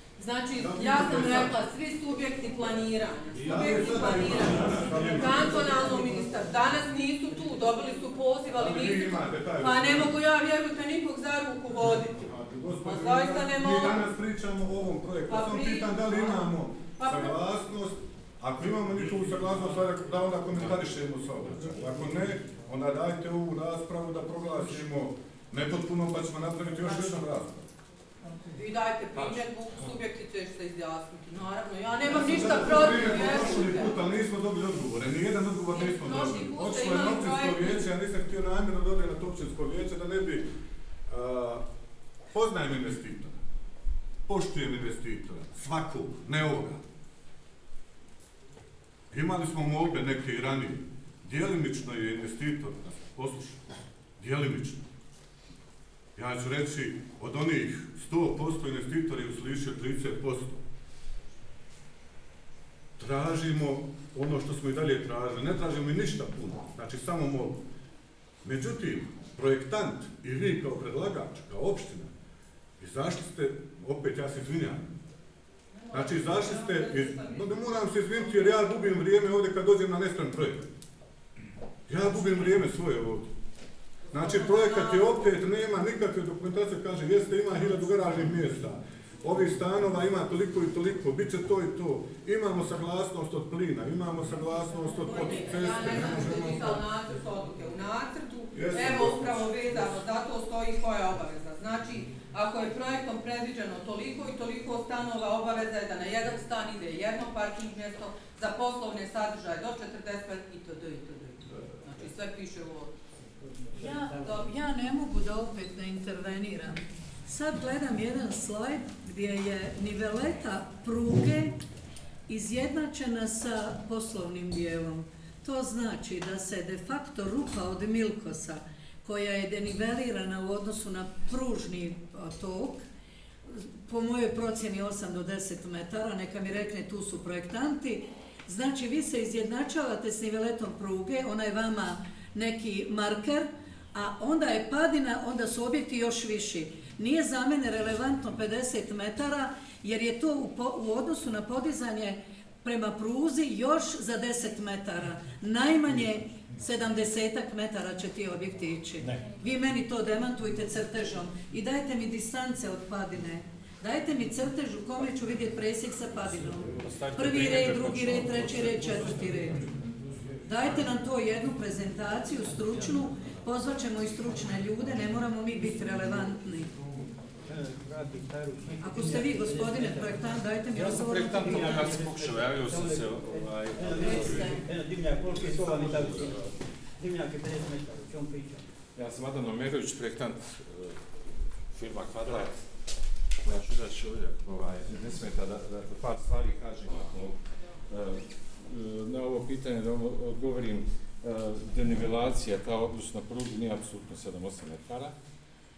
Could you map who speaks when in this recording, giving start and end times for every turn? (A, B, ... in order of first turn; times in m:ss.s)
0:00.2-0:12.3 A
0:00.6-0:01.5 B
0:03.4-0:06.1 B
0:08.5-0:10.2 B
0:12.2-0:27.7 B
0:12.8-0:14.1 A
0:15.3-0:17.4 A
0:28.5-0:34.0 A
0:29.2-0:30.0 C
0:32.0-0:40.5 B
0:35.7-0:37.9 A
0:41.1-0:41.7 B
0:42.3-0:43.4 B
0:44.3-0:46.8 B
0:49.1-0:53.6 B
0:54.2-0:54.8 B
0:56.2-1:00.6 B
1:03.0-1:07.6 B
1:08.4-1:12.1 B
1:12.8-1:14.9 B
1:15.7-1:18.8 A
1:15.9-1:20.7 B
1:21.9-1:23.3 B
1:24.1-1:25.3 A
1:24.1-1:36.8 B
1:35.2-1:53.0 A
1:38.5-1:39.9 B
1:53.8-2:01.6 D
2:02.3-2:12.8 D
2:13.5-2:49.6 D
2:46.6-2:49.6 C
2:50.4-2:56.7 D
2:57.5-3:00.1 E
2:58.8-3:01.9 D
3:00.8-3:04.6 C
3:03.9-3:06.3 E
3:05.3-3:06.5 C
3:07.0-3:08.6 E
3:09.0-3:11.0 C
3:11.7-3:12.6 C
3:13.4-3:17.4 C
3:17.9-3:25.1 C